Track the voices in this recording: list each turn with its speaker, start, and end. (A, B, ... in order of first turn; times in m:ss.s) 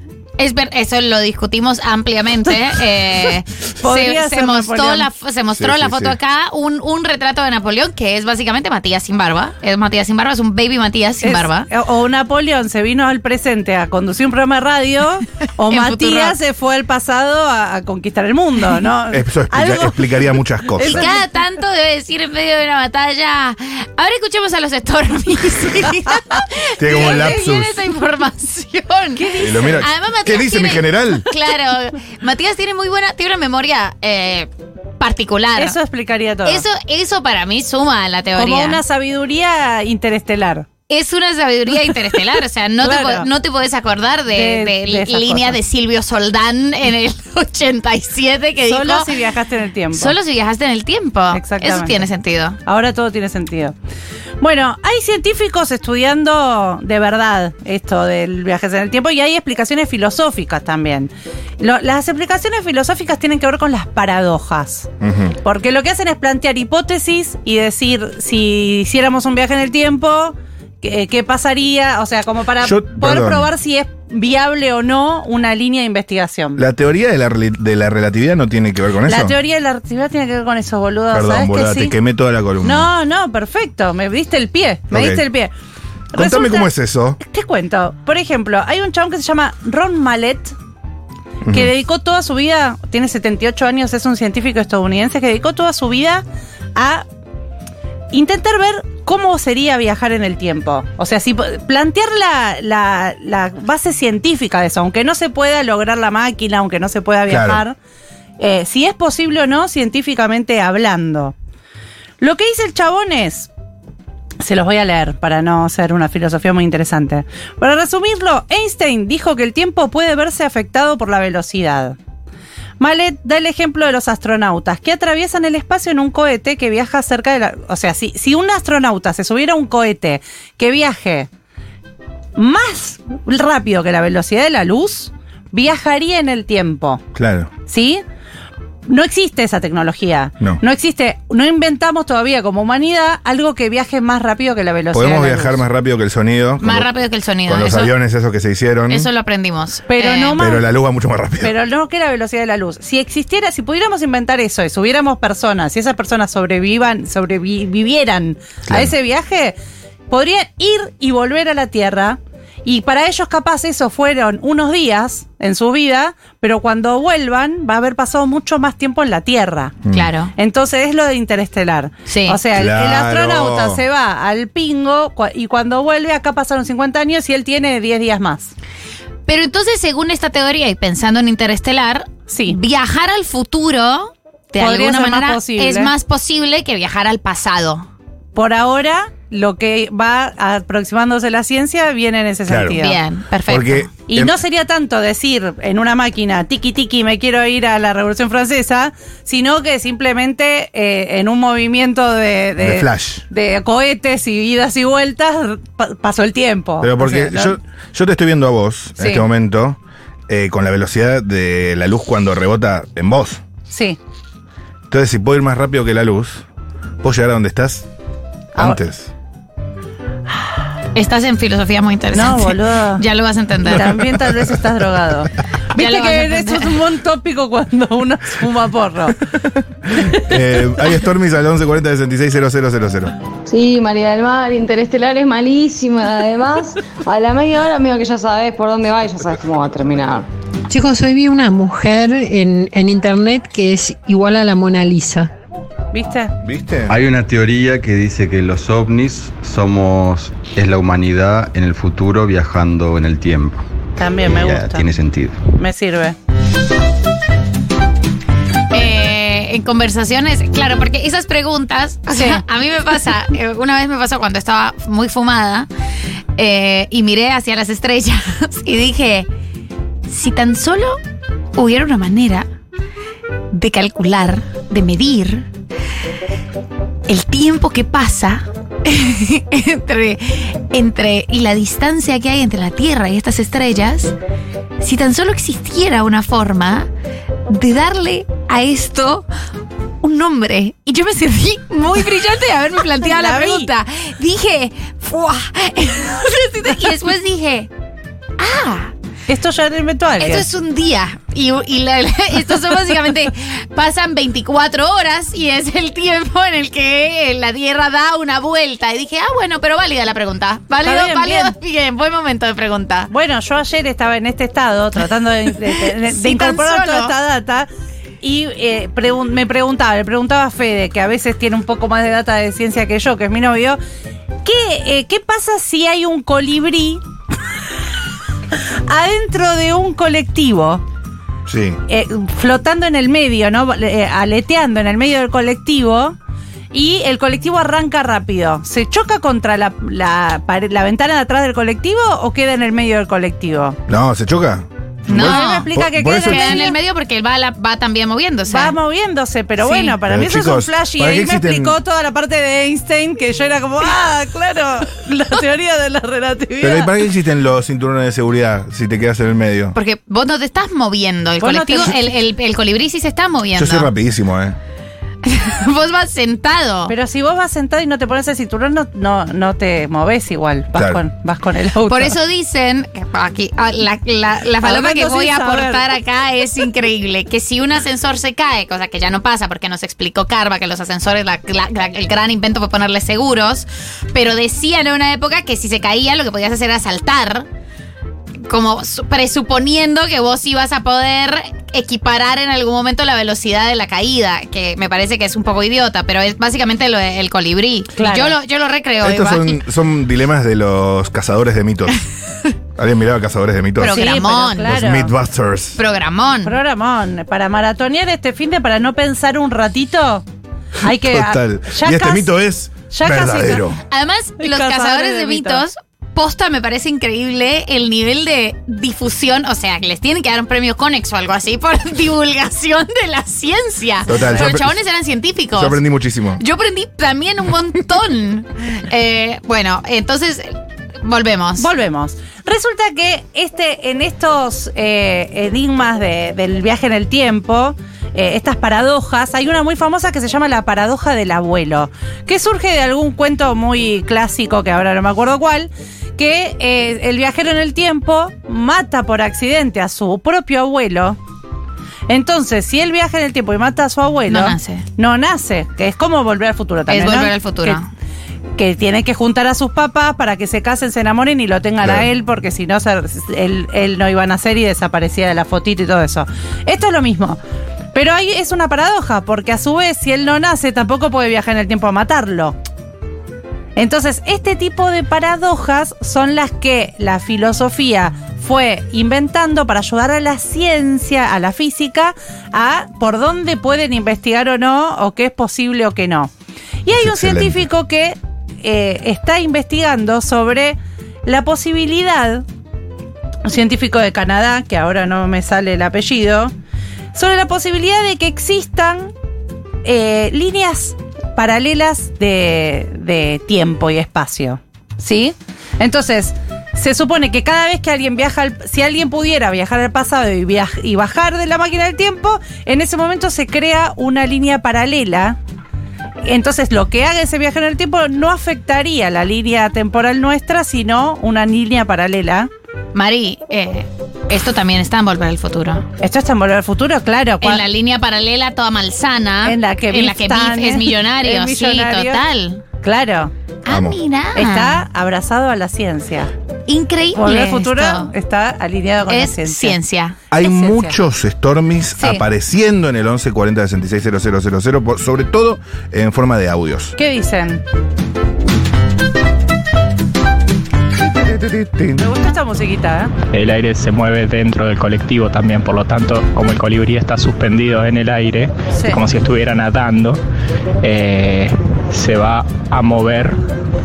0:00.4-0:11.7 A
0:03.8-0:05.1 B
0:05.6-0:06.2 C
0:11.2-0:21.2 B
0:15.7-0:16.4 A
0:19.1-0:21.1 C
0:20.8-0:34.5 A
0:26.8-0:27.8 C
0:26.9-0:27.4 B
0:29.2-0:29.8 B
0:29.4-0:31.3 C
0:35.0-0:35.8 A
0:35.6-0:36.6 B
0:36.4-0:38.8 A
0:38.4-0:40.7 B
0:40.9-0:49.1 A
0:42.8-0:43.3 B
0:44.3-0:45.6 B
0:48.7-0:50.1 B
0:49.9-0:52.6 A
0:51.3-0:52.1 B
0:52.6-0:53.8 B
0:54.4-1:04.9 B
1:05.0-1:05.4 C
1:05.4-1:16.6 B
1:12.6-1:13.5 C
1:16.6-1:19.4 C
1:19.1-1:21.9 B
1:21.1-1:22.9 C
1:22.6-1:25.5 B
1:24.9-1:25.2 C
1:26.1-1:30.6 B
1:26.1-1:27.2 C
1:31.4-1:31.7 C
1:31.5-1:36.2 B
1:36.8-1:37.0 B
1:38.1-1:47.8 B
1:47.3-1:47.6 C
1:48.4-1:51.4 B
1:52.2-1:53.5 B
1:54.4-2:02.0 B
2:02.8-2:11.3 B
2:12.4-2:17.0 B
2:17.2-2:17.5 C
2:17.7-2:18.0 B
2:18.9-2:25.6 B
2:24.9-2:26.9 C
2:26.6-2:27.9 A
2:27.5-2:29.1 C
2:28.9-2:30.4 A
2:29.9-2:30.7 B
2:30.4-2:31.5 C
2:31.4-2:39.6 B
2:38.7-2:38.9 C
2:40.1-2:49.8 B
2:49.9-2:50.3 A
2:50.4-2:58.5 B
2:52.1-2:52.4 A
2:52.5-2:53.8 C
2:59.3-3:07.9 A
3:02.3-3:02.6 B
3:04.6-3:05.9 B
3:08.4-3:13.0 B
3:12.5-3:12.8 C
3:12.8-3:13.9 A
3:13.5-3:14.4 C
3:14.1-3:27.6 B
3:22.6-3:23.2 C
3:26.8-3:29.8 C
3:29.0-3:29.3 B
3:30.3-3:33.4 C
3:33.7-3:34.0 B
3:34.9-3:36.4 C
3:37.0-3:37.9 C
3:38.6-3:39.1 C
3:41.0-3:44.0 A
3:42.1-3:43.0 B
3:43.7-3:49.2 B
3:45.8-3:46.7 A
3:50.1-3:53.1 C
3:53.5-4:00.3 D
4:00.7-4:05.3 E
4:05.9-4:06.3 B
4:06.4-4:06.9 C
4:06.9-4:13.5 F
4:14.0-4:14.9 B
4:14.4-4:15.3 F
4:15.5-4:16.2 B
4:18.7-4:25.7 A
4:22.1-4:22.4 B
4:26.4-4:29.3 A
4:30.1-4:31.0 A
4:31.6-4:32.5 A
4:33.5-4:35.5 A
4:37.1-4:44.2 A
4:44.8-4:46.9 A
4:47.5-4:49.3 A
4:50.0-4:57.7 A
4:53.0-4:53.7 B
4:58.4-4:58.9 A
4:59.3-5:00.5 B
5:00.2-5:13.1 A
5:10.8-5:11.5 B
5:13.1-5:17.7 B
5:15.7-5:17.1 A
5:18.2-5:23.8 B
5:24.4-5:27.0 B
5:28.9-5:30.8 B
5:31.5-5:31.8 C
5:31.9-5:36.2 B
5:36.7-5:43.8 B
5:43.9-5:46.7 C
5:45.1-5:45.7 A
5:45.1-5:46.8 B
5:46.2-5:48.8 A
5:48.5-5:56.9 B
5:49.6-5:50.0 A
5:50.0-5:51.8 C
5:56.6-5:59.8 C
5:59.7-6:03.9 A
6:01.4-6:02.0 B
6:03.6-6:04.6 C
6:05.2-6:06.9 A
6:06.9-6:12.2 B
6:10.8-6:11.0 C
6:11.9-6:27.5 A
6:14.6-6:15.8 B
6:28.5-6:39.6 A
6:38.0-6:38.4 B
6:39.0-6:42.0 C
6:42.8-6:44.1 C
6:43.8-6:44.7 A
6:43.9-6:45.1 B
6:44.7-6:45.8 C
6:45.8-6:46.6 A
6:46.4-6:50.2 B
6:50.8-6:52.3 B
6:50.8-6:53.8 C
6:52.9-6:53.6 B
6:53.9-7:05.8 A
6:54.4-6:55.6 B
7:04.1-7:04.8 C
7:05.6-7:06.4 C
7:06.4-7:10.5 A
7:11.0-7:11.7 A
7:11.6-7:31.2 B
7:32.1-7:37.8 B
7:34.3-7:34.9 A
7:36.9-7:37.9 A
7:38.6-7:47.4 B
7:41.8-7:42.1 C
7:47.9-7:52.6 B
7:53.8-8:06.3 B
8:06.8-8:12.4 B
8:07.0-8:07.6 C
8:13.4-8:16.5 B
8:17.1-8:19.1 B
8:19.8-8:35.4 B
8:36.2-8:42.5 B
8:42.9-8:45.8 A
8:46.0-8:47.7 B
8:47.4-8:52.6 A
8:49.4-8:52.2 B
8:52.8-8:53.3 B
8:53.7-8:54.8 A
8:53.7-8:54.0 C
8:54.4-8:56.3 B
8:56.7-8:58.1 A
8:57.1-8:59.8 B
8:59.1-9:00.2 A
9:00.3-9:07.0 C
9:00.4-9:01.0 B
9:02.0-9:02.2 A
9:07.0-9:07.6 B
9:11.2-9:12.0 C
9:12.0-9:13.1 B
9:13.3-9:20.2 G
9:18.7-9:19.0 B
9:20.8-9:23.4 G